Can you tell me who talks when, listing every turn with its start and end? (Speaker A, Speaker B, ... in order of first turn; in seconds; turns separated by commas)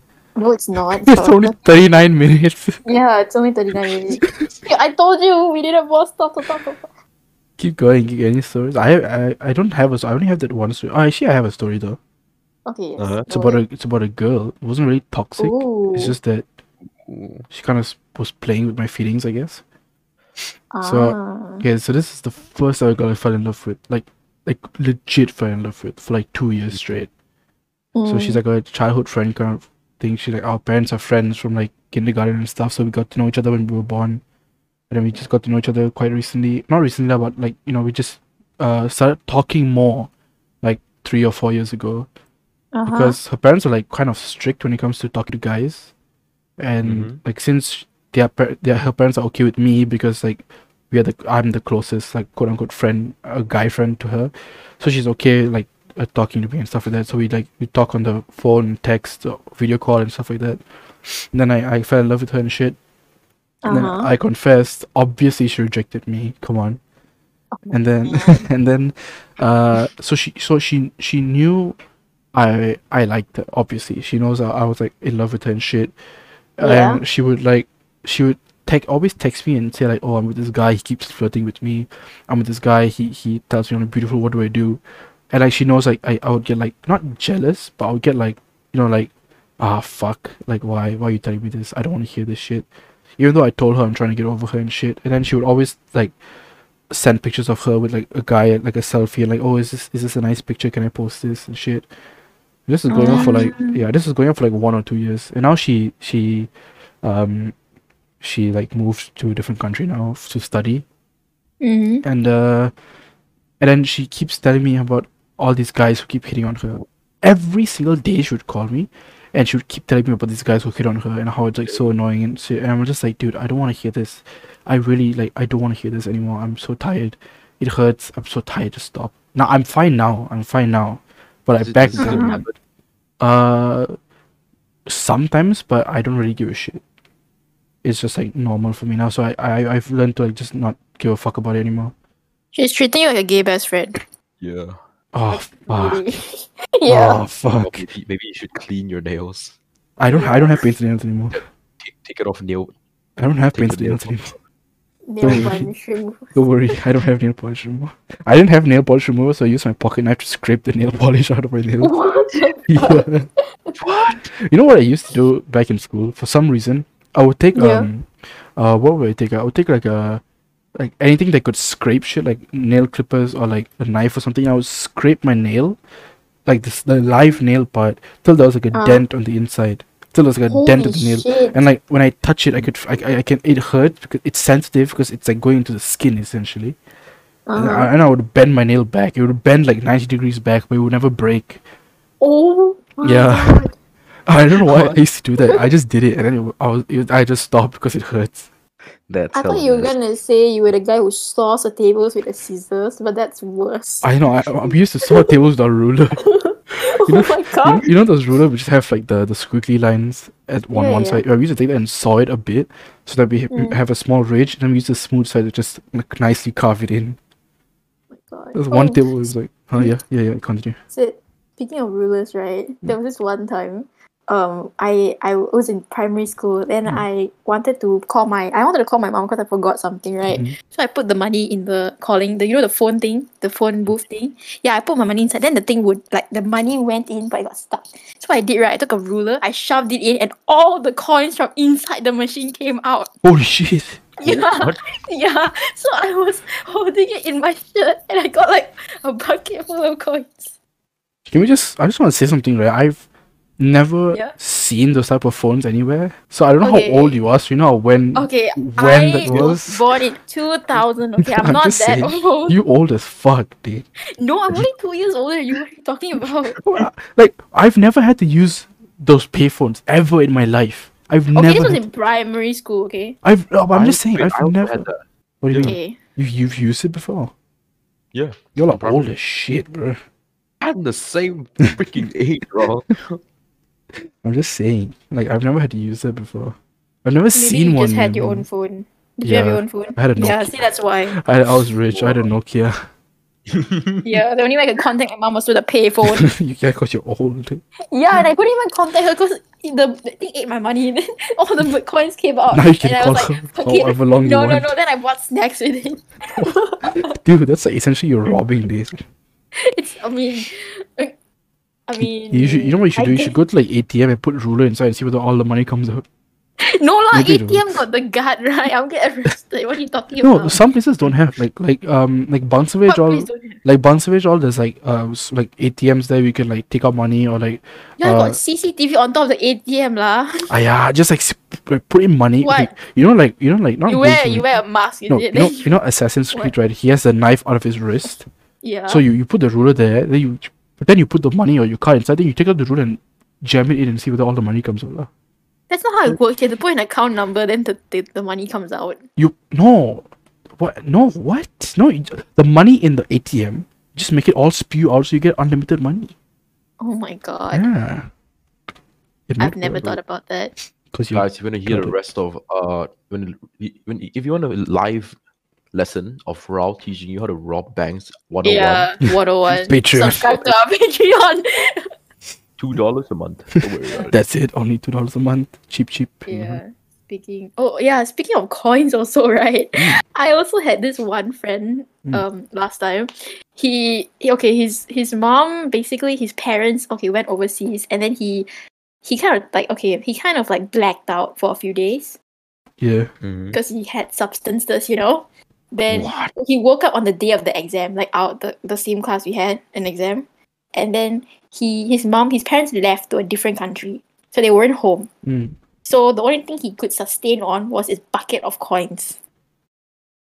Speaker A: 0.4-1.6, Speaker B: 0.9-2.8, Speaker A: 2.9-6.9, Speaker B: 7.6-12.0, Speaker A: 12.7-13.6, Speaker C: 13.0-13.3, Speaker B: 13.3-16.5, Speaker A: 15.4-16.2, Speaker C: 17.0-17.5, Speaker B: 17.5-19.6, Speaker A: 20.7-21.7, Speaker B: 20.8-27.1, Speaker A: 27.9-28.4, Speaker B: 28.1-34.2, Speaker B: 34.9-40.1, Speaker B: 40.6-42.1, Speaker A: 42.7-43.2, Speaker B: 42.9-45.9, Speaker B: 46.6-60.6, Speaker C: 46.8-47.2, Speaker B: 61.3-62.8, Speaker A: 63.6-64.1, Speaker B: 63.7-66.8, Speaker A: 67.5-68.5, Speaker B: 67.7-71.8, Speaker B: 72.3-75.9, Speaker B: 76.6-92.7, Speaker A: 76.6-77.0, Speaker B: 93.2-96.2, Speaker B: 96.9-101.9, Speaker B: 102.7-106.5, Speaker A: 102.9-103.8, Speaker B: 107.0-107.5, Speaker B: 108.2-110.8, Speaker A: 111.6-112.0, Speaker B: 112.0-112.7, Speaker B: 113.6-132.4, Speaker C: 131.6-132.6, Speaker A: 132.0-132.4, Speaker B: 133.2-133.9, Speaker B: 134.9-136.8, Speaker B: 137.8-141.9, Speaker A: 142.5-144.0, Speaker C: 144.4-144.8, Speaker B: 145.1-146.2, Speaker A: 145.3-147.2, Speaker B: 146.9-147.9, Speaker C: 147.5-149.6, Speaker B: 150.0-151.4, Speaker A: 150.1-150.6, Speaker C: 151.3-152.7, Speaker B: 153.2-154.3, Speaker C: 153.5-154.4, Speaker A: 155.1-156.8, Speaker B: 155.2-155.7, Speaker C: 155.2-155.6, Speaker B: 156.3-161.9, Speaker A: 161.8-163.1, Speaker B: 162.7-163.3, Speaker C: 163.8-164.3, Speaker B: 164.4-170.2, Speaker A: 167.6-167.9, Speaker B: 170.8-175.8, Speaker B: 176.5-186.8, Speaker A: 178.7-179.1, Speaker A: 180.5-181.6, Speaker A: 187.5-187.9, Speaker B: 187.6-191.6, Speaker A: 192.2-193.8, Speaker B: 193.0-193.7, Speaker B: 194.3-198.5, Speaker C: 194.7-195.0, Speaker C: 199.1-199.9, Speaker A: 199.3-204.1, Speaker B: 204.0-206.2, Speaker A: 204.6-205.4, Speaker A: 206.2-207.9, Speaker B: 206.9-217.2, Speaker A: 210.7-211.2, Speaker A: 213.5-213.8, Speaker A: 218.1-219.9, Speaker B: 218.5-220.8, Speaker A: 220.9-243.1, Speaker B: 230.3-230.5, Speaker B: 243.2-244.0, Speaker A: 244.2-250.5, Speaker C: 244.2-244.8, Speaker B: 251.3-253.1, Speaker B: 253.6-259.8, Speaker A: 256.6-257.2, Speaker A: 258.1-262.6, Speaker C: 259.3-259.5, Speaker B: 261.2-263.9, Speaker A: 264.2-266.6, Speaker B: 266.7-271.9, Speaker A: 271.4-273.2, Speaker B: 273.2-274.9, Speaker C: 273.7-275.7, Speaker B: 275.4-277.3, Speaker A: 275.6-276.0, Speaker C: 278.1-279.1, Speaker B: 278.6-280.0, Speaker C: 280.6-283.2, Speaker B: 284.2-288.5, Speaker A: 287.3-291.2, Speaker B: 289.2-292.8, Speaker C: 291.9-292.3, Speaker C: 293.5-294.1, Speaker A: 294.0-296.3, Speaker B: 296.1-297.6, Speaker A: 297.9-307.1, Speaker B: 302.5-304.7, Speaker B: 306.4-309.0, Speaker A: 309.6-311.1, Speaker A: 311.9-313.4, Speaker B: 312.0-316.1, Speaker A: 316.6-320.6, Speaker B: 317.1-317.8, Speaker B: 320.2-328.4, Speaker A: 322.9-323.6, Speaker A: 328.0-330.5, Speaker B: 330.5-334.5, Speaker A: 332.4-332.7, Speaker A: 333.9-335.7, Speaker B: 335.1-338.3, Speaker A: 338.6-339.0, Speaker B: 338.9-345.1, Speaker A: 345.7-349.0, Speaker B: 349.2-350.1, Speaker B: 350.6-356.1, Speaker A: 356.8-357.7, Speaker B: 357.5-358.1, Speaker B: 359.3-360.0, Speaker A: 359.4-360.6, Speaker B: 360.9-361.9, Speaker C: 361.1-365.2, Speaker C: 365.7-368.9, Speaker A: 368.4-371.9, Speaker B: 369.5-370.4, Speaker C: 372.6-374.2, Speaker B: 374.1-376.6, Speaker A: 376.3-388.5, Speaker A: 389.0-392.2, Speaker B: 392.8-393.1, Speaker C: 393.2-393.6, Speaker A: 393.5-405.1, Speaker B: 395.9-396.3, Speaker B: 405.2-405.6, Speaker A: 405.8-409.2